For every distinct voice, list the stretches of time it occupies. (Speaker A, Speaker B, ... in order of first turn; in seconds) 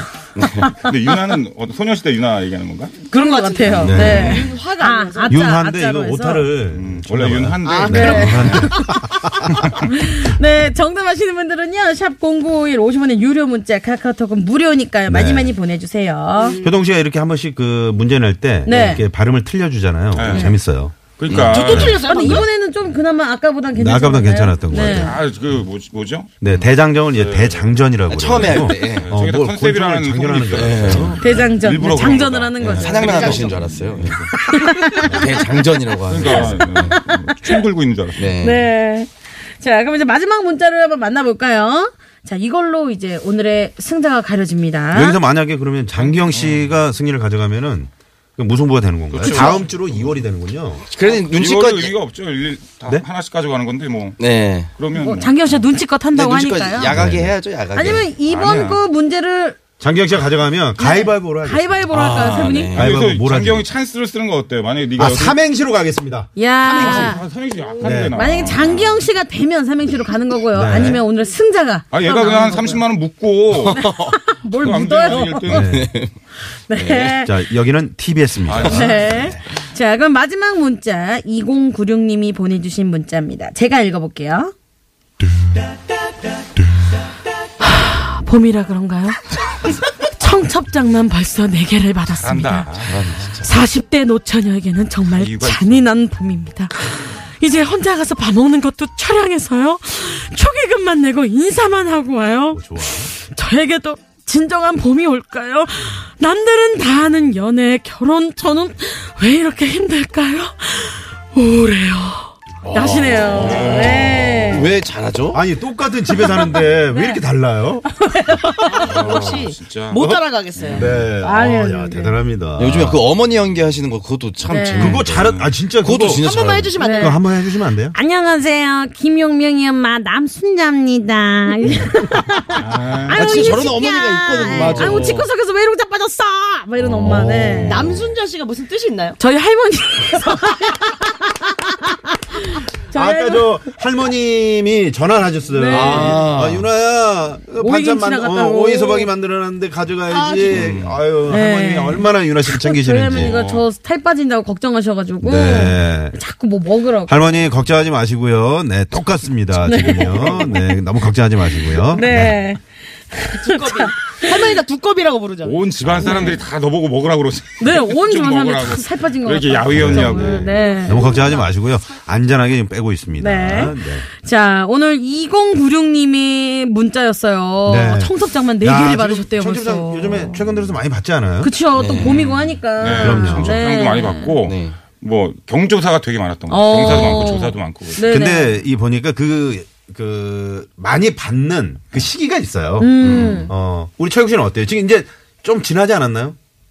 Speaker A: 0.4-0.7, 21.3-21.7, 26.4-26.7, 28.1-29.1, 30.6-31.2, 32.7-34.1, 35.0-36.7, 38.2-38.7, 50.9-51.9, 54.2-54.7, 56.1-58.1, 61.9-62.9, 73.6-74.2, 75.5-76.2, 76.7-77.2, 92.8-93.5, 112.7-115.4, 122.6-126.8, 133.1-135.2, 145.7-146.7, 181.7-182.2, 184.4-184.8, 193.0-193.5
Speaker B: 0.7-3.0, 3.9-4.3, 6.7-8.7, 9.4-9.8, 20.1-22.0, 24.8-26.3, 27.1-27.7, 28.5-34.3, 36.1-38.3, 45.9-46.8, 49.1-50.2, 51.0-55.6, 58.2-58.8, 62.7-65.3, 66.7-69.1, 71.9-73.8, 74.5-75.7, 78.4-79.2, 92.2-93.0, 95.1-95.9, 113.4-113.9, 118.8-120.9, 125.3-125.5, 132.6-133.6, 150.6-151.0, 153.1-153.7, 165.4-170.6, 182.0-188.1
Speaker C: 3.1-6.5, 7.9-9.1, 9.9-16.6, 18.6-19.0, 20.3-20.6, 21.9-25.2, 31.2-33.5, 34.4-35.4, 36.2-37.6, 38.4-45.2, 49.3-49.6, 54.9-56.9, 57.7-59.6, 60.8-62.8, 66.3-67.2, 67.8-72.8, 73.8-75.7, 76.7-77.4, 78.6-84.5, 87.6-89.2, 90.0-92.7, 93.4-114.7, 116.1-117.2, 117.9-118.9, 121.2-122.2, 124.5-125.0, 126.8-127.2, 127.9-137.9, 139.2-141.7, 142.3-143.5, 145.5-146.3, 147.6-149.1, 151.3-157.4, 159.6-160.8, 161.4-164.5, 166.0-166.3, 167.6-171.3, 173.2-180.5, 181.4-184.4, 186.5-188.6, 192.8-193.5
Speaker D: 3.1-5.4, 7.7-8.5, 16.4-16.7, 21.5-22.5, 118.6-121.0, 126.2-127.2, 137.6-139.2, 150.1-150.6, 163.3-165.6
Speaker E: 3.8-4.5, 5.3-9.6, 15.1-15.5, 16.6-22.4, 23.8-25.2, 26.4-31.5, 32.6-33.4, 44.9-50.9, 56.9-57.4, 59.8-63.7, 65.0-67.2, 67.8-68.6, 70.5-71.0, 75.5-75.9, 77.2-79.4, 102.5-103.1, 115.3-117.8, 120.0-123.0, 124.8-126.3, 126.8-128.0, 136.8-138.1, 142.9-153.4, 155.2-156.2, 157.1-162.5, 165.8-166.3, 169.7-174.1, 177.7-181.5, 182.9-183.6, 186.8-187.2, 188.0-196.3